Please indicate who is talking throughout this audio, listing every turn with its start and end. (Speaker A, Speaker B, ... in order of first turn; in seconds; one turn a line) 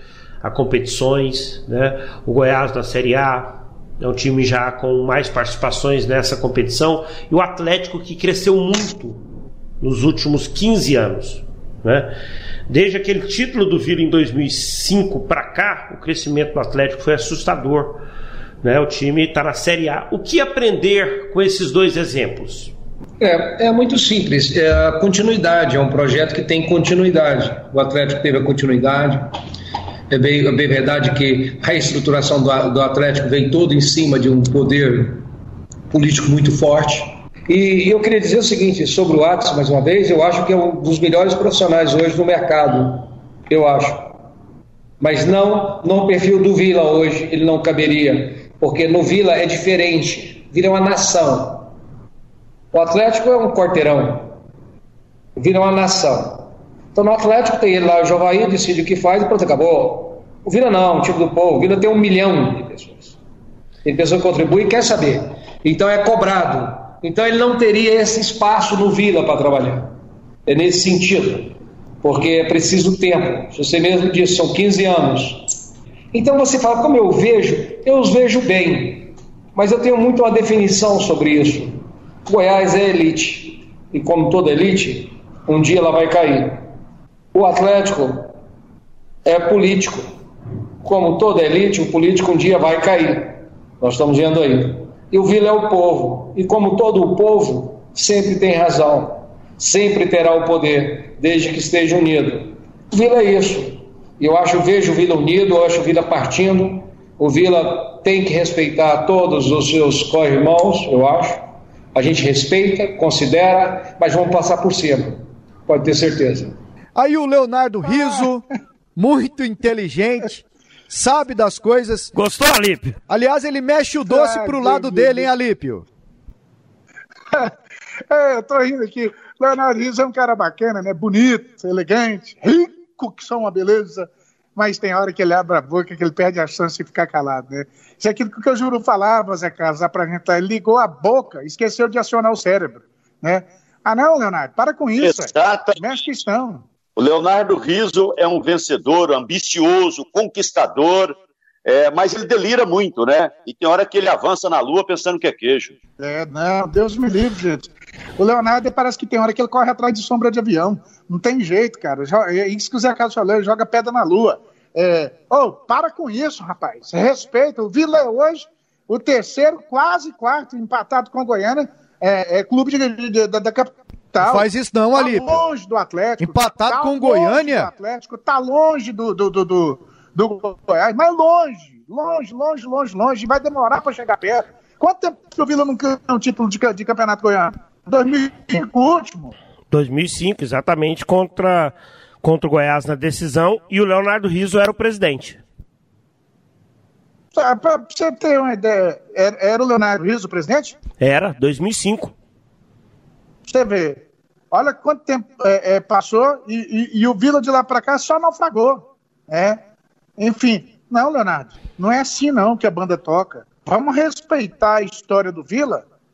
Speaker A: 0.4-9.2
Speaker A: 9.8-12.1
Speaker A: 12.7-18.0
Speaker A: 18.6-22.7
Speaker B: 23.2-29.4
Speaker B: 30.1-35.3
Speaker B: 35.9-44.2
Speaker B: 45.0-51.7
Speaker B: 52.7-54.4
Speaker B: 55.4-63.2
Speaker B: 63.9-69.9
Speaker B: 70.5-75.5
Speaker B: 76.1-86.7
Speaker B: 87.3-88.3
Speaker B: 89.2-90.1
Speaker B: 90.8-116.6
Speaker C: 117.0-118.5
Speaker C: 119.0-122.1
Speaker A: 122.1-123.0
Speaker C: 123.1-125.9
Speaker D: 124.1-125.3
Speaker D: 128.1-146.6
Speaker E: 145.0-145.8
Speaker E: 147.0-155.8
Speaker D: 156.0-189.3
Speaker C: 174.2-175.4
Speaker C: 176.2-177.7
Speaker A: 189.7-195.4
Speaker D: 197.3-200.8
Speaker A: 201.0-202.1
Speaker D: 203.5-209.6
Speaker D: 210.2-215.8